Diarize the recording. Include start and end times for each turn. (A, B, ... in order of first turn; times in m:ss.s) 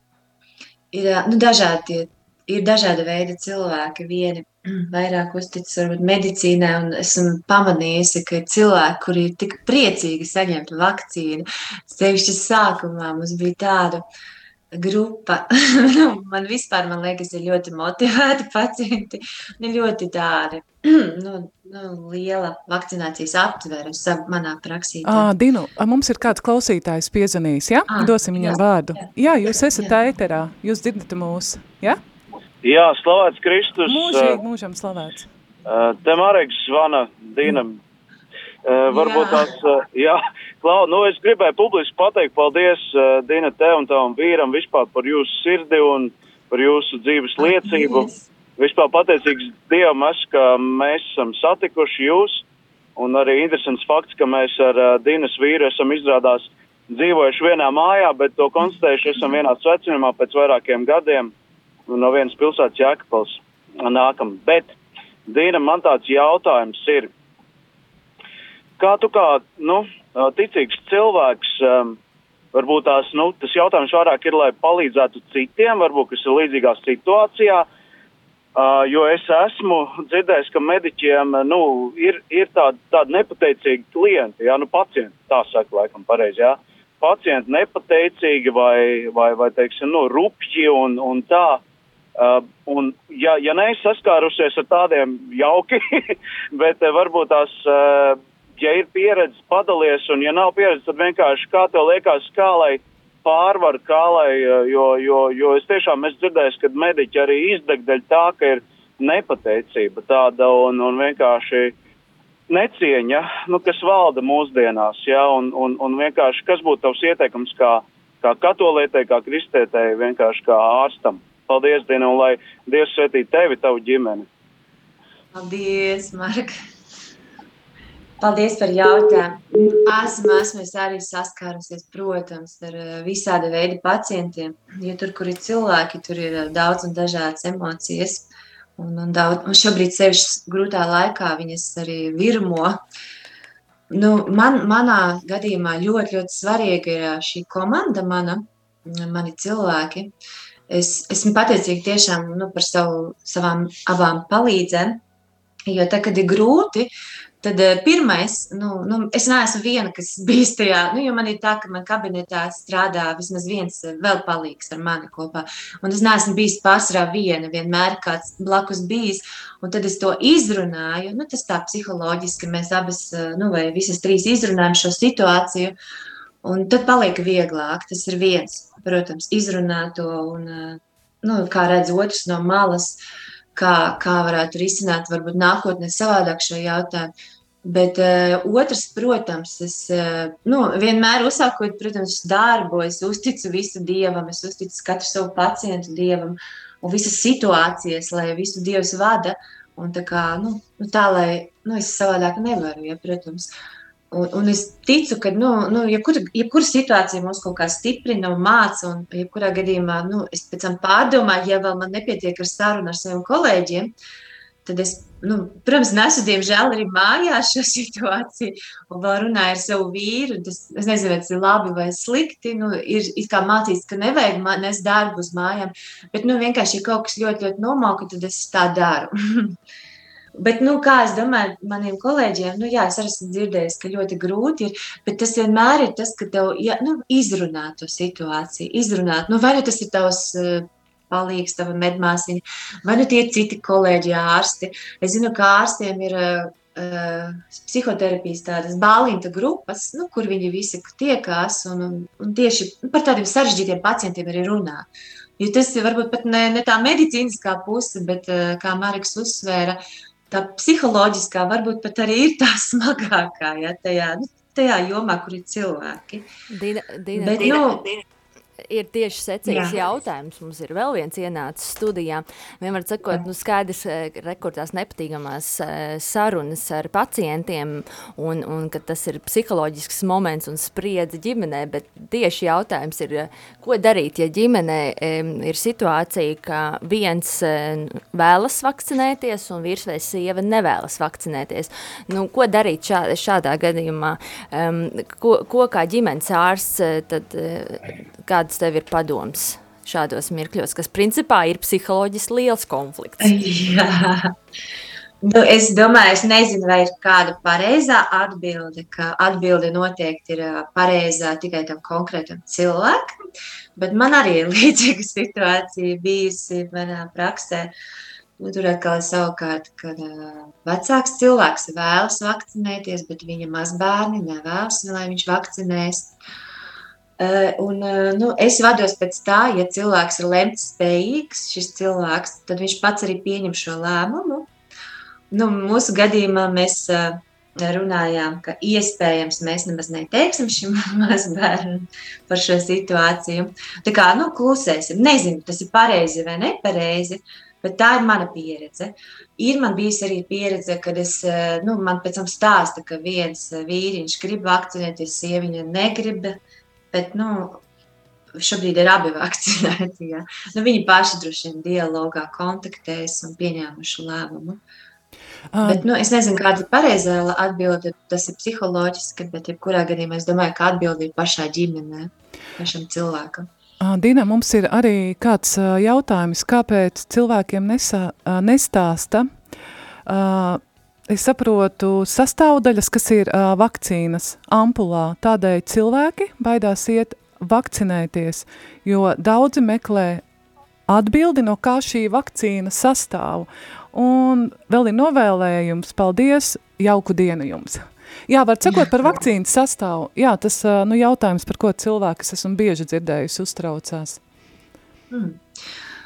0:00.9-0:14.0 A
0:14.7-0:25.3 A
0:25.0-0:32.0 B
0:27.9-0:29.0 A
0:32.6-0:34.4 C
0:33.9-0:35.3 B
0:35.7-0:37.8 C
0:38.6-0:52.4 C
0:38.9-0:39.5 A
0:47.4-0:48.2 A
0:53.0-1:01.3 C
1:01.9-1:04.7 C
1:05.3-1:07.1 C
1:08.8-1:12.0 C
1:12.5-1:17.7 C
1:18.6-1:31.6 C
1:32.2-1:51.7 C
1:52.5-2:04.3 C
2:05.3-2:06.6 A
2:08.2-2:22.8 A
2:23.9-2:30.1 A
2:30.7-2:35.0 A
2:35.7-2:55.8 A
2:56.4-3:03.0 A
3:03.6-3:07.1 A
3:07.6-3:23.5 A
3:24.1-3:33.9 A
3:34.6-3:49.6 A
3:50.4-4:14.9 A
4:15.4-4:26.3 A
4:26.5-4:27.8 D
4:27.2-4:27.9 A
4:28.7-5:03.4 D
4:29.5-4:29.8 A
5:03.2-5:04.3 A
5:05.2-5:13.1 A
5:13.8-5:17.7 A
5:18.4-5:26.2 A
5:27.2-5:34.5 A
5:35.3-5:56.4 A
5:56.9-5:57.6 A
5:58.4-6:04.6 A
6:05.5-6:05.8 B
6:05.6-6:13.5 A
6:13.8-6:19.3 B
6:20.1-6:30.2 B
6:30.9-6:44.2 B
6:45.1-6:45.4 A